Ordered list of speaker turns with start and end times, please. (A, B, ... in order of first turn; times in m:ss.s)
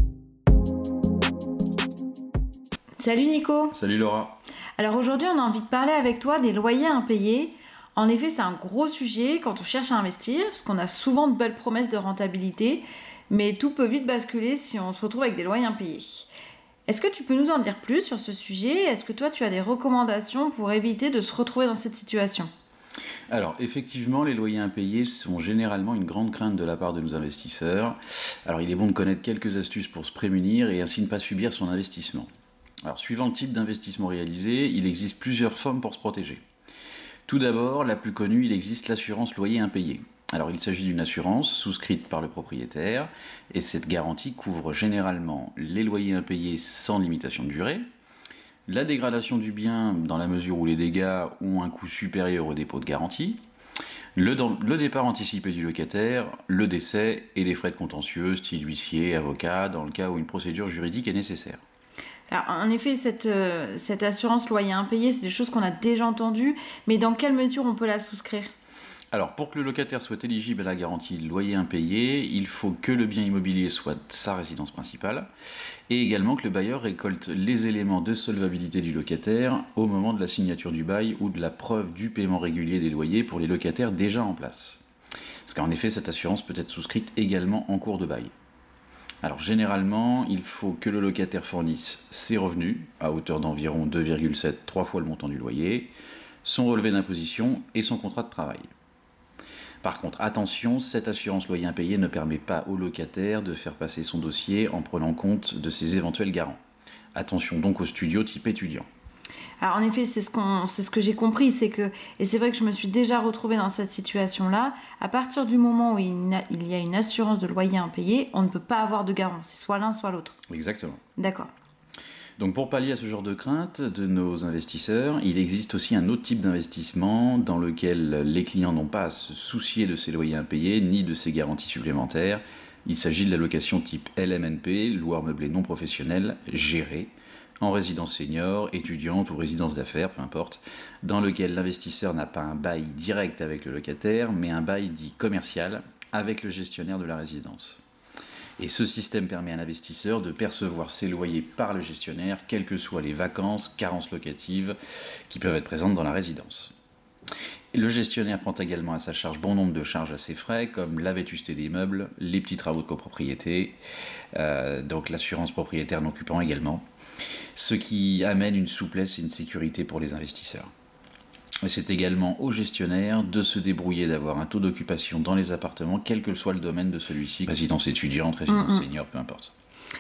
0:03.0-0:03.8 A
0:03.7-0:04.4 B
0:04.8-0:16.3 A
0:16.9-0:22.5 A
0:23.3-0:32.3 B
0:32.9-0:36.4 B
0:37.3-0:47.8 B
0:48.7-0:53.4 B
0:54.2-1:01.6 B
1:02.3-1:08.5 A
1:09.1-1:15.3 B
1:15.9-1:24.8 B
1:25.5-1:28.3 B
1:29.2-1:35.9 B
1:36.4-1:38.7 B
1:39.8-1:46.6 B
1:47.2-1:48.9 B
1:49.6-2:00.4 A
2:00.5-2:01.0 B
2:01.2-2:01.5 A
2:02.4-2:27.8 B
2:28.6-2:34.8 B
2:35.3-2:36.7 B
2:37.7-2:43.8 B
2:44.4-2:46.8 B
2:47.6-2:50.7 B
2:51.6-2:59.5 B
2:58.5-2:58.8 A